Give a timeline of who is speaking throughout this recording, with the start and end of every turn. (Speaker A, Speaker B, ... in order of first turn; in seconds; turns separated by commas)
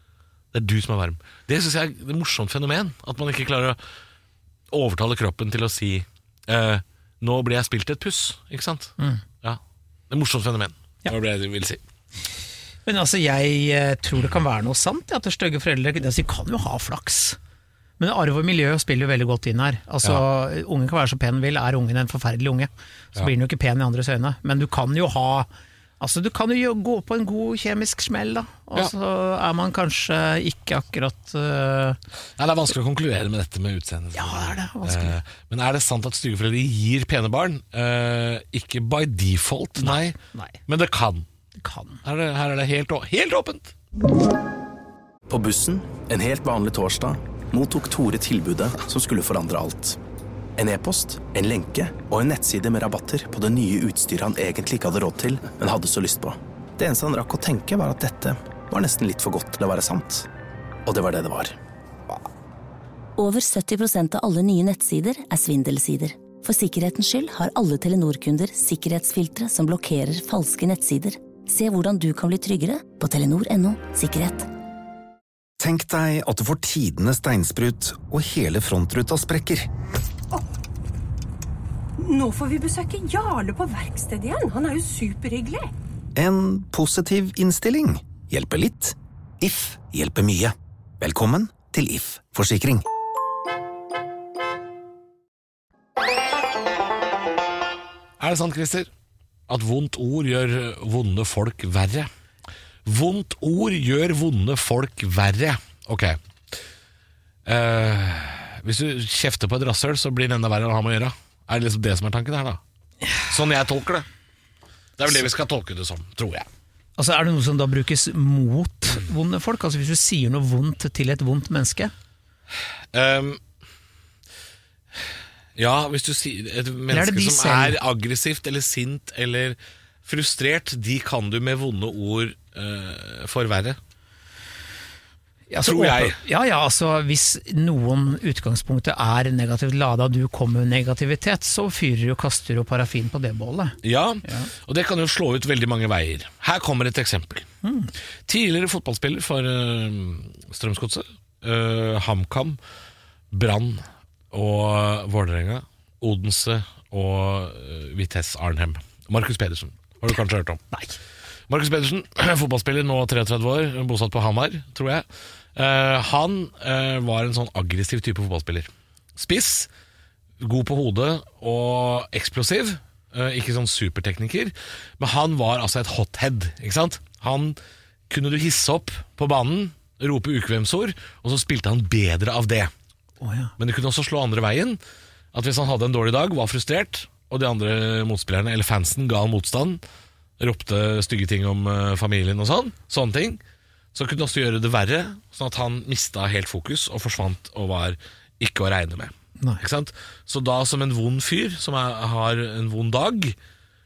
Speaker A: 0.5-3.8, Speaker A: 4.7-11.8, Speaker B: 12.9-17.4, Speaker B: 18.0-25.5, Speaker B: 26.0-32.0, Speaker A: 32.4-41.3, Speaker B: 34.1-35.2, Speaker B: 39.8-40.6, Speaker B: 41.6-42.0, Speaker A: 42.0-43.7, Speaker C: 45.3-50.0, Speaker C: 50.6-60.3, Speaker C: 60.9-61.6, Speaker D: 63.2-74.5, Speaker E: 75.6-79.7, Speaker F: 82.0-85.7, Speaker E: 86.2-92.8, Speaker A: 98.2-98.9, Speaker A: 99.5-102.1, Speaker A: 102.9-106.5, Speaker A: 107.5-112.6, Speaker A: 113.3-114.1, Speaker A: 115.0-116.5, Speaker B: 117.0-121.9, Speaker A: 122.9-123.4, Speaker A: 125.6-133.8, Speaker B: 126.9-127.8, Speaker B: 135.5-144.5, Speaker A: 135.6-136.2, Speaker A: 143.8-147.5, Speaker B: 147.6-147.9, Speaker A: 148.3-152.6, Speaker A: 153.3-160.7, Speaker B: 160.7-161.0, Speaker A: 161.5-169.7, Speaker A: 170.4-177.6, Speaker A: 178.1-182.7, Speaker B: 183.2-183.5, Speaker A: 183.6-184.8, Speaker A: 185.3-189.8, Speaker A: 190.4-193.4, Speaker A: 193.9-203.4